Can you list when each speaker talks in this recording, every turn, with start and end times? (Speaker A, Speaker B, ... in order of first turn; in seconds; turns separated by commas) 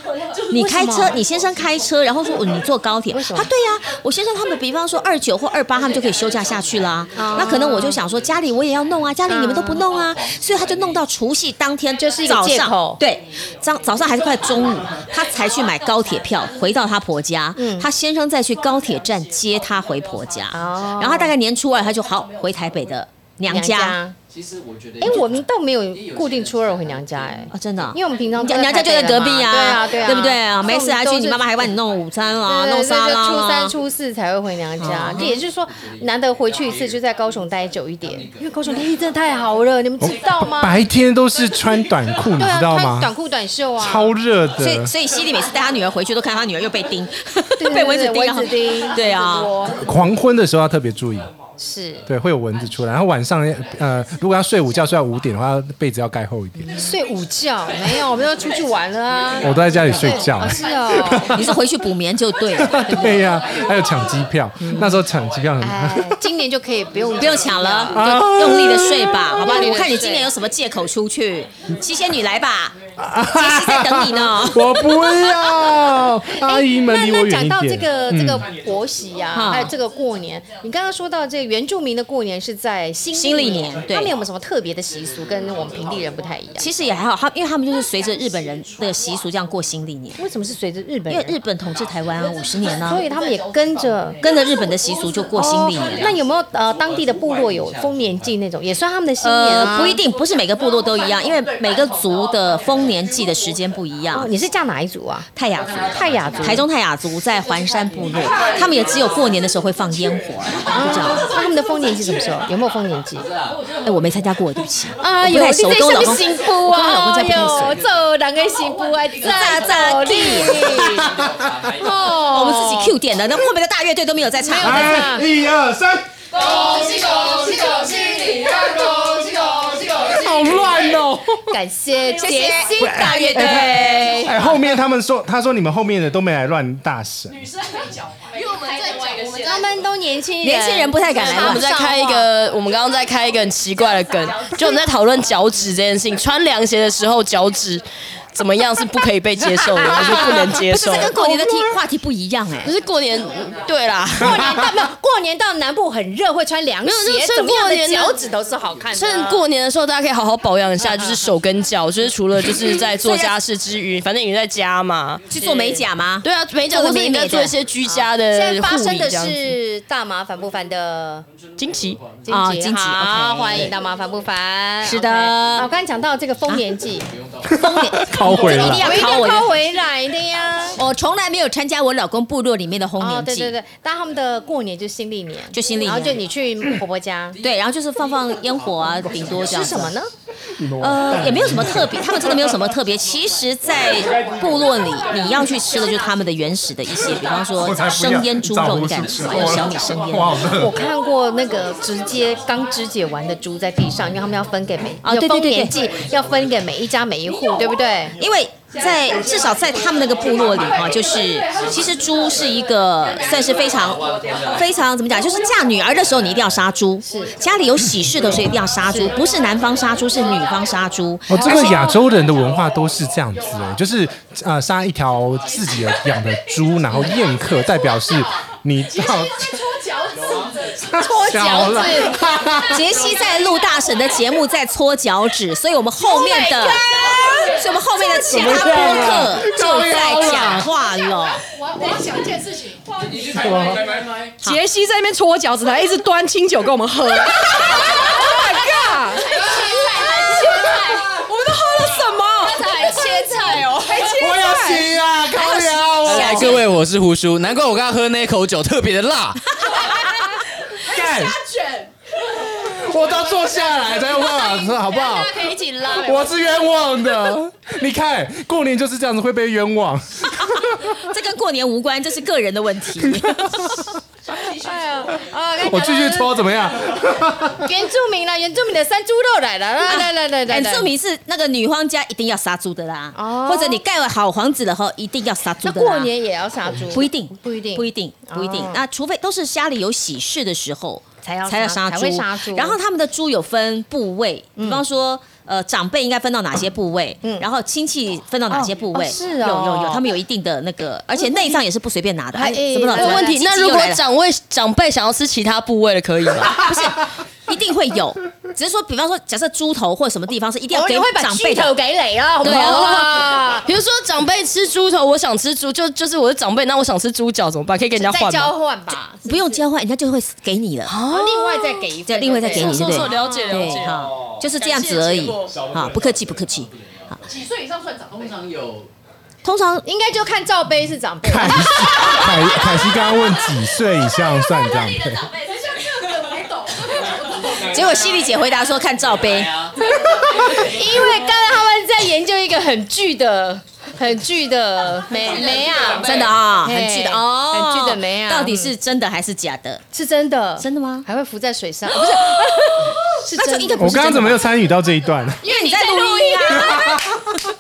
Speaker A: 0.5-1.2, Speaker B: 0.5-24.0, Speaker A: 3.1-3.5, Speaker A: 7.2-8.0, Speaker A: 9.3-9.8, Speaker A: 12.0-13.0, Speaker A: 17.6-17.9, Speaker A: 20.5-21.3, Speaker A: 23.5-24.1, Speaker A: 25.0-31.5, Speaker B: 27.5-33.7, Speaker A: 32.5-40.8, Speaker B: 34.8-35.4, Speaker C: 40.0-43.1, Speaker A: 42.4-44.1, Speaker C: 43.8-44.9, Speaker B: 44.6-49.5, Speaker A: 47.6-49.8, Speaker C: 49.8-51.3, Speaker A: 51.6-52.0, Speaker C: 52.1-56.8, Speaker A: 56.6-61.4, Speaker C: 59.4-61.5, Speaker B: 61.3-63.2, Speaker C: 62.6-66.2, Speaker B: 64.6-64.9, Speaker A: 65.6-68.0, Speaker B: 67.2-72.8, Speaker C: 67.9-69.3, Speaker A: 69.4-70.3, Speaker C: 73.0-78.4, Speaker B: 73.3-74.8, Speaker A: 75.1-75.3, Speaker A: 76.4-86.7, Speaker B: 79.3-79.7, Speaker B: 83.1-84.1, Speaker B: 86.6-90.2, Speaker A: 90.2-91.4, Speaker B: 91.1-93.0, Speaker A: 92.9-94.2, Speaker B: 94.2-96.1, Speaker A: 95.4-100.0, Speaker B: 99.2-104.3, Speaker A: 104.1-105.3, Speaker B: 105.4-111.3, Speaker A: 105.9-106.7, Speaker A: 110.7-113.3, Speaker B: 113.8-117.8, Speaker A: 115.0-121.1, Speaker B: 119.2-120.8, Speaker A: 121.8-123.0, Speaker B: 122.3-125.0, Speaker A: 124.4-125.3, Speaker C: 124.6-126.1, Speaker C: 128.9-131.6, Speaker A: 131.5-134.5, Speaker B: 132.2-134.4, Speaker C: 132.8-137.4, Speaker A: 139.4-142.3, Speaker B: 140.4-141.6, Speaker D: 141.2-151.3, Speaker B: 149.9-152.7, Speaker D: 152.6-154.6, Speaker A: 154.2-159.4, Speaker D: 156.8-158.2, Speaker D: 158.9-165.2, Speaker A: 160.8-161.2, Speaker B: 163.0-163.3, Speaker B: 165.3-167.6, Speaker A: 165.3-165.8, Speaker D: 166.2-169.6, Speaker A: 167.9-171.3, Speaker D: 171.6-172.0, Speaker A: 172.2-177.1, Speaker B: 172.3-173.7, Speaker B: 174.8-175.7, Speaker C: 177.5-179.0, Speaker B: 177.6-179.5, Speaker A: 178.3-180.8, Speaker B: 180.8-183.5, Speaker A: 183.0-187.4, Speaker B: 185.5-186.2, Speaker B: 187.4-189.9, Speaker A: 189.5-190.1, Speaker B: 190.8-200.4, Speaker C: 191.1-191.9, Speaker C: 197.6-200.8, Speaker A: 200.6-208.2, Speaker B: 205.0-205.7, Speaker B: 208.2-214.0, Speaker B: 214.5-221.8, Speaker A: 217.1-217.3, Speaker A: 218.9-219.2, Speaker C: 221.3-229.6, Speaker A: 221.3-221.9, Speaker C: 230.9-232.9, Speaker A: 231.0-232.2, Speaker B: 232.7-236.8, Speaker B: 237.5-241.4, Speaker C: 238.2-240.7, Speaker C: 243.3-243.8, Speaker E: 244.4-249.4, Speaker E: 250.2-251.0, Speaker D: 251.7-252.0, Speaker E: 251.8-252.6, Speaker D: 252.6-254.4, Speaker A: 252.6-253.6, Speaker C: 254.1-256.5, Speaker E: 254.1-254.8, Speaker B: 255.4-256.6, Speaker F: 256.0-259.4, Speaker C: 260.8-261.4, Speaker C: 262.5-270.9, Speaker A: 264.4-266.3, Speaker B: 270.4-273.8, Speaker C: 273.0-273.8, Speaker A: 274.4-276.4, Speaker C: 275.6-277.7, Speaker A: 277.6-280.9, Speaker B: 279.9-286.1, Speaker A: 283.1-283.8, Speaker A: 285.6-288.8, Speaker B: 286.9-304.0, Speaker A: 291.2-292.8, Speaker A: 294.6-294.8, Speaker A: 298.5-300.0, Speaker A: 301.1-301.6, Speaker A: 302.3-303.3, Speaker D: 302.9-306.6, Speaker B: 306.5-311.7, Speaker A: 310.7-313.7, Speaker D: 312.4-318.5, Speaker B: 312.4-313.0, Speaker A: 318.0-319.6, Speaker B: 319.2-321.0, Speaker D: 320.9-321.8, Speaker A: 321.1-323.7, Speaker B: 322.1-327.2, Speaker D: 322.5-325.5, Speaker B: 329.4-329.8, Speaker A: 329.8-332.4, Speaker C: 331.2-335.3, Speaker B: 337.7-339.5, Speaker A: 340.6-348.7, Speaker B: 346.0-349.8, Speaker A: 349.9-353.9, Speaker B: 350.6-351.1, Speaker B: 351.9-354.4, Speaker C: 353.8-355.5, Speaker A: 355.4-357.0, Speaker B: 355.4-357.0, Speaker C: 356.6-357.4